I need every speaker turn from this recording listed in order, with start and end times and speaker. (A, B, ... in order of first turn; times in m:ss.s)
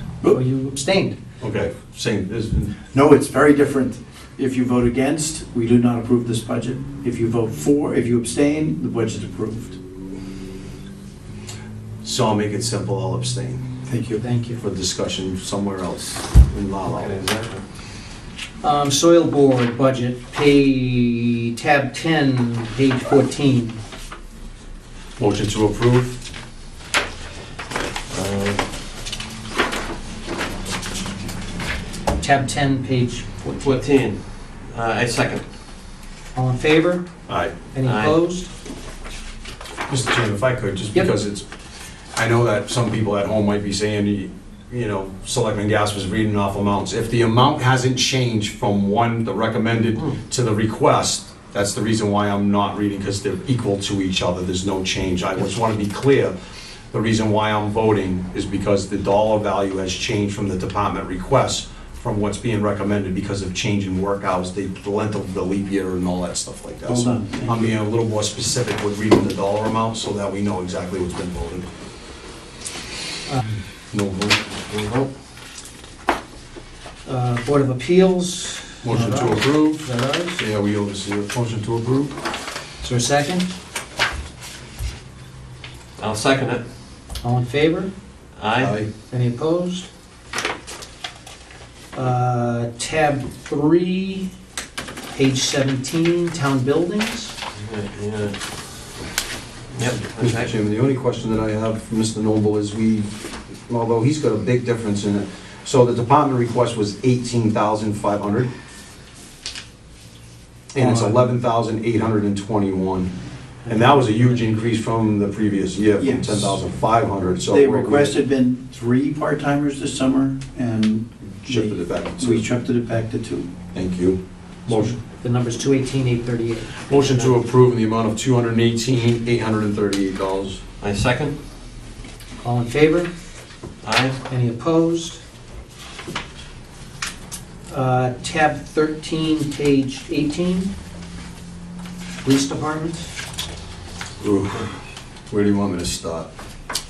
0:00.3-0:01.2 A
0:01.4-0:02.8 B
0:02.9-0:09.8 C
0:12.0-0:13.6 B
0:13.8-0:14.2 C
0:14.2-0:14.6 A
0:14.6-0:17.2 B
0:16.8-0:17.6 D
0:18.6-0:23.8 A
0:25.2-0:26.2 B
0:28.1-0:28.6 D
0:32.2-0:33.8 A
0:33.6-0:35.4 D
0:36.3-0:37.1 A
0:37.3-0:37.5 B
0:37.7-0:38.5 A
0:37.8-0:38.2 D
0:39.9-0:41.4 B
0:42.1-0:56.3 B
0:56.9-1:11.7 B
1:06.9-1:07.7 C
1:13.9-1:14.4 B
1:14.7-1:15.1 D
1:17.0-1:20.4 A
1:18.8-1:22.2 B
1:22.8-1:23.4 A
1:26.0-1:26.6 D
1:27.2-1:27.9 A
1:28.4-1:28.8 D
1:28.6-1:28.9 B
1:29.1-1:29.9 A
1:31.9-1:34.3 A
1:35.1-1:37.3 A
1:37.6-1:38.4 D
1:39.7-1:40.5 D
1:40.1-1:48.5 B
1:50.7-1:53.1 B
1:50.8-1:51.2 C
1:53.6-1:54.4 A
1:53.7-1:58.1 B
1:56.0-1:56.6 C
1:57.3-2:03.5 C
2:01.4-2:02.4 B
2:03.7-2:05.0 B
2:04.7-2:07.3 A
2:06.8-2:10.6 B
2:10.8-2:11.3 D
2:12.4-2:13.1 A
2:13.8-2:14.2 D
2:14.3-2:15.2 A
2:17.7-2:20.7 A
2:22.2-2:23.1 A
2:24.2-2:24.8 B
2:25.3-2:26.3 B